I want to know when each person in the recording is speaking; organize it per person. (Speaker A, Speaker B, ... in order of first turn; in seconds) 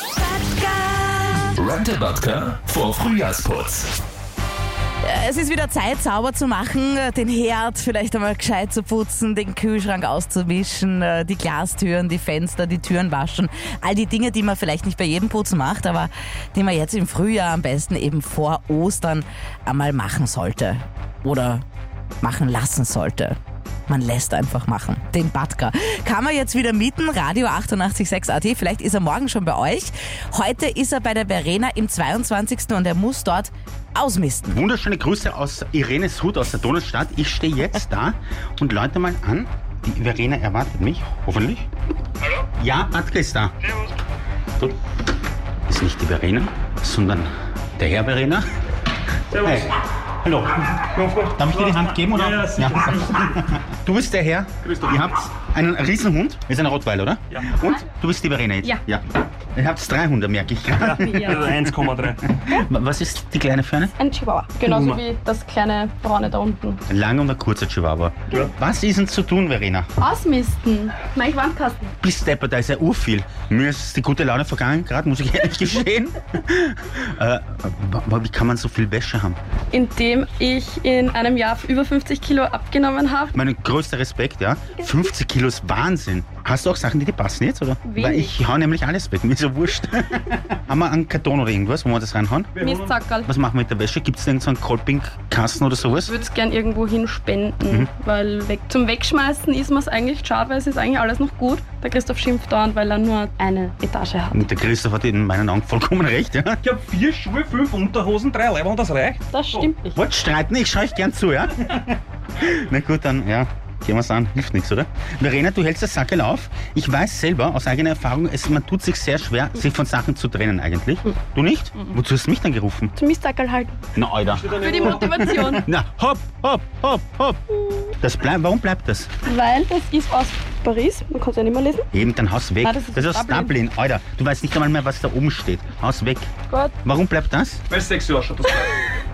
Speaker A: 1.6-3.9
Speaker B: 5.0-21.6, 22.2-23.4, 23.9-34.6
Speaker C: 34.5-41.7, 42.6-43.5, 45.7-48.5, 49.4-50.6, 51.3-61.8, 62.4-64.0, 66.9-69.9, 72.0-79.4, 83.3-92.5, 93.2-96.1, 104.3-106.6, 110.0-122.9, 124.0-127.4, 128.0-129.1, 131.9-136.3, 136.8-137.6
Speaker D: 51.0-51.5, 52.2-52.7, 61.5-62.2, 92.6-92.9, 106.7-109.2, 124.4-124.7, 137.7-138.4
Speaker E: 60.9-61.5, 64.0-66.8, 70.0-71.9, 79.7-83.3, 84.8-85.0, 87.8-88.3, 92.6-93.3, 96.0-104.4, 109.3-110.0, 123.0-123.8, 124.6-125.7, 129.3-131.9, 132.6-133.6, 136.5-136.8